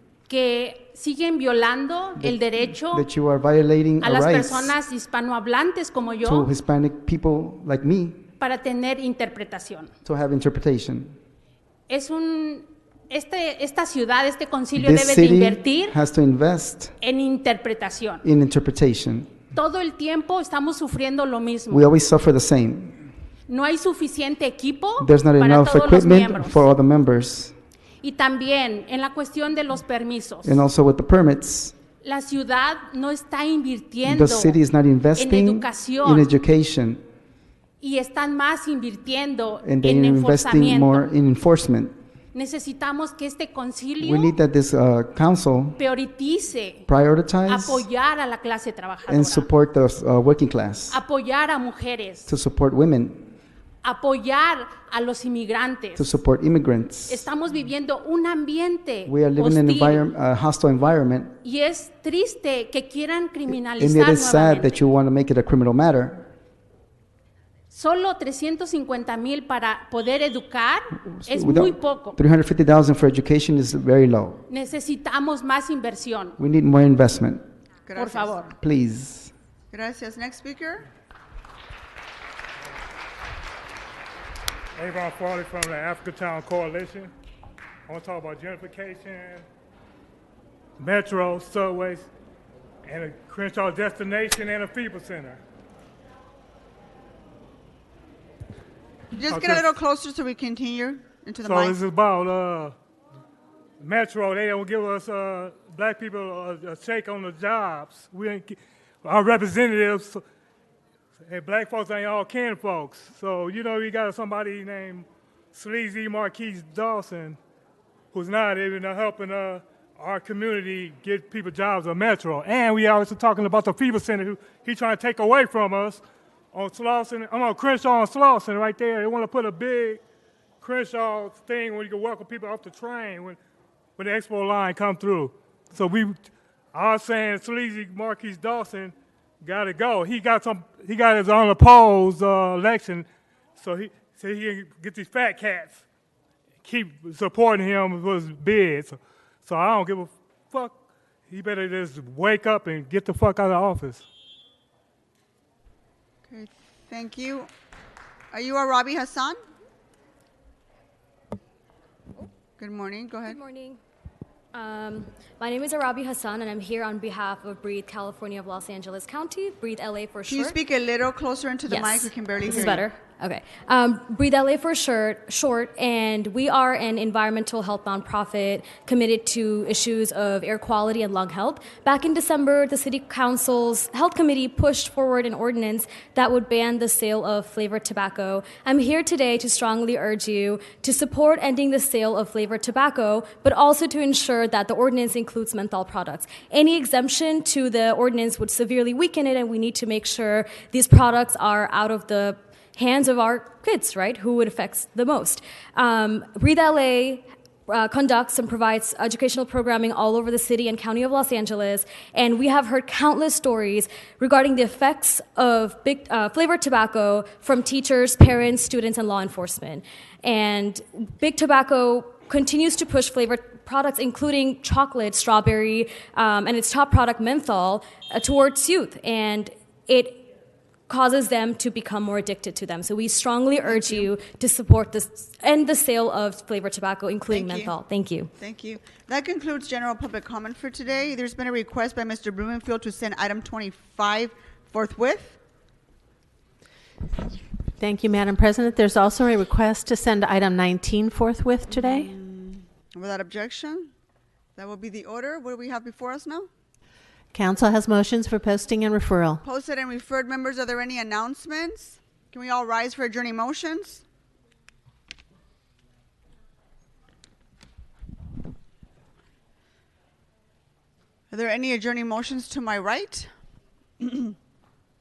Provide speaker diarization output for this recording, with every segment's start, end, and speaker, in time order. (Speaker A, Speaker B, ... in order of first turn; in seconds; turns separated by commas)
Speaker A: 0.3-3.1, Speaker B: 2.2-4.8, Speaker A: 4.0-6.5, Speaker B: 6.2-8.2, Speaker A: 8.4-9.9, Speaker B: 10.0-11.2, Speaker A: 11.9-16.0, Speaker B: 14.8-16.9, Speaker A: 17.0-18.3, Speaker B: 18.2-19.3, Speaker A: 19.5-21.9, Speaker B: 21.7-23.1, Speaker A: 23.5-26.6, Speaker B: 25.0-27.5, Speaker A: 28.0-30.6, Speaker B: 30.4-31.8, Speaker A: 32.0-34.6, Speaker B: 34.0-37.0, Speaker A: 35.1-36.3, Speaker A: 37.8-41.1, Speaker B: 39.6-42.0, Speaker A: 42.3-44.4, Speaker B: 44.0-45.8, Speaker A: 45.8-46.9, Speaker B: 46.9-47.9, Speaker A: 47.5-49.5, Speaker B: 49.1-51.0, Speaker A: 50.9-52.4, Speaker B: 52.3-53.3, Speaker A: 53.8-56.0, Speaker B: 56.0-57.2, Speaker A: 57.1-60.1, Speaker B: 59.1-61.4, Speaker A: 61.4-64.8, Speaker B: 63.7-66.3, Speaker A: 67.7-72.2, Speaker B: 71.0-74.4, Speaker A: 74.5-76.4, Speaker B: 76.4-77.4, Speaker C: 77.8-78.5, Speaker A: 78.0-78.5, Speaker B: 78.5-79.3, Speaker C: 79.7-80.9, Speaker D: 84.8-87.1, Speaker D: 87.9-89.5, Speaker D: 90.8-92.1, Speaker D: 92.8-95.4, Speaker C: 99.1-101.8, Speaker D: 99.3-99.6, Speaker D: 101.5-102.7, Speaker D: 103.8-110.2, Speaker D: 111.2-117.4, Speaker D: 118.1-126.0, Speaker D: 126.5-130.0, Speaker D: 130.6-133.4, Speaker D: 134.0-136.2, Speaker D: 136.7-145.8, Speaker D: 146.6-150.7, Speaker D: 151.3-154.0, Speaker C: 156.3-157.5, Speaker C: 158.3-159.4, Speaker C: 162.6-163.4, Speaker E: 163.2-163.8, Speaker E: 164.5-170.6, Speaker C: 170.3-172.8, Speaker E: 171.7-230.3, Speaker E: 230.9-238.3, Speaker C: 233.6-234.1, Speaker C: 237.3-237.7, Speaker C: 238.4-245.4, Speaker F: 247.8-252.1, Speaker C: 251.7-253.9, Speaker C: 254.6-256.5, Speaker F: 257.3-259.4, Speaker C: 259.4-264.0, Speaker C: 271.3-273.3, Speaker C: 274.0-274.3